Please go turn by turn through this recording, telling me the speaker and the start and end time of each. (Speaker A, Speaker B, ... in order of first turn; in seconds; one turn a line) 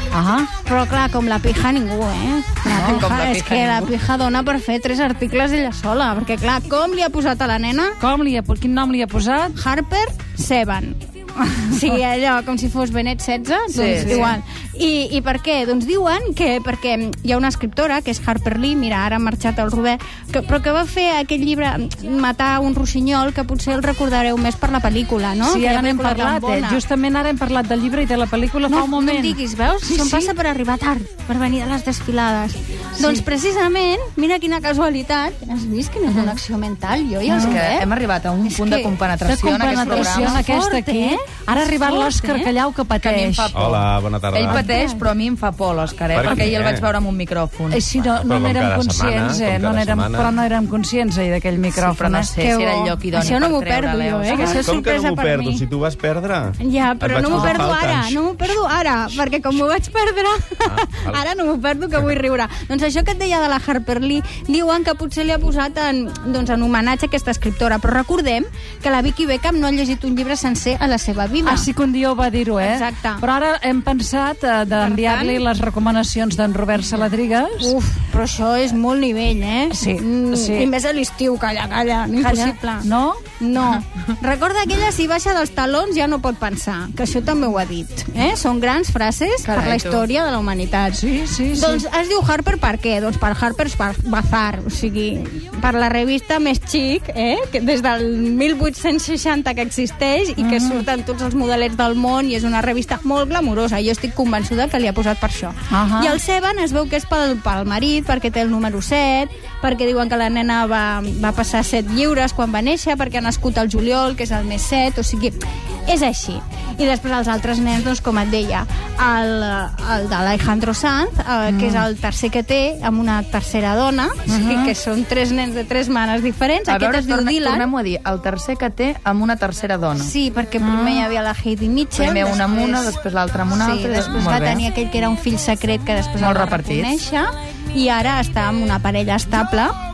Speaker A: 0.1-0.5
Speaker B: 0.6-8.0
Speaker C: 2.6-3.9
Speaker A: 8.0-9.6
Speaker B: 9.5-26.8
Speaker C: 13.7-14.3
Speaker A: 13.8-14.4
Speaker A: 25.4-30.3
Speaker B: 28.7-37.9
Speaker A: 33.0-33.2
Speaker C: 36.1-36.4
Speaker A: 37.3-37.6
Speaker C: 37.4-40.4
Speaker B: 38.4-39.0
Speaker A: 39.2-43.6
Speaker B: 39.7-42.5
Speaker C: 43.0-47.8
Speaker D: 43.5-44.6
Speaker B: 44.5-45.0
Speaker D: 46.1-46.9
Speaker A: 47.7-52.3
Speaker D: 47.9-50.4
Speaker C: 51.7-54.6
Speaker B: 52.4-55.6
Speaker A: 54.3-54.6
Speaker D: 54.5-58.2
Speaker B: 56.6-71.7
Speaker C: 57.3-57.6
Speaker A: 57.3-57.7
Speaker D: 60.7-61.2
Speaker A: 71.4-77.8
Speaker B: 72.6-73.2
Speaker B: 74.7-75.4
Speaker B: 77.6-127.7
Speaker A: 79.7-80.7
Speaker A: 82.2-83.2
Speaker C: 89.4-90.0
Speaker A: 90.9-91.8
Speaker A: 100.4-100.8
Speaker A: 105.7-106.2
Speaker A: 121.5-121.8
Speaker A: 124.3-124.7
Speaker C: 126.7-130.1
Speaker B: 129.9-132.9
Speaker A: 130.6-131.1
Speaker C: 131.9-134.6
Speaker B: 133.5-139.7
Speaker C: 136.2-137.0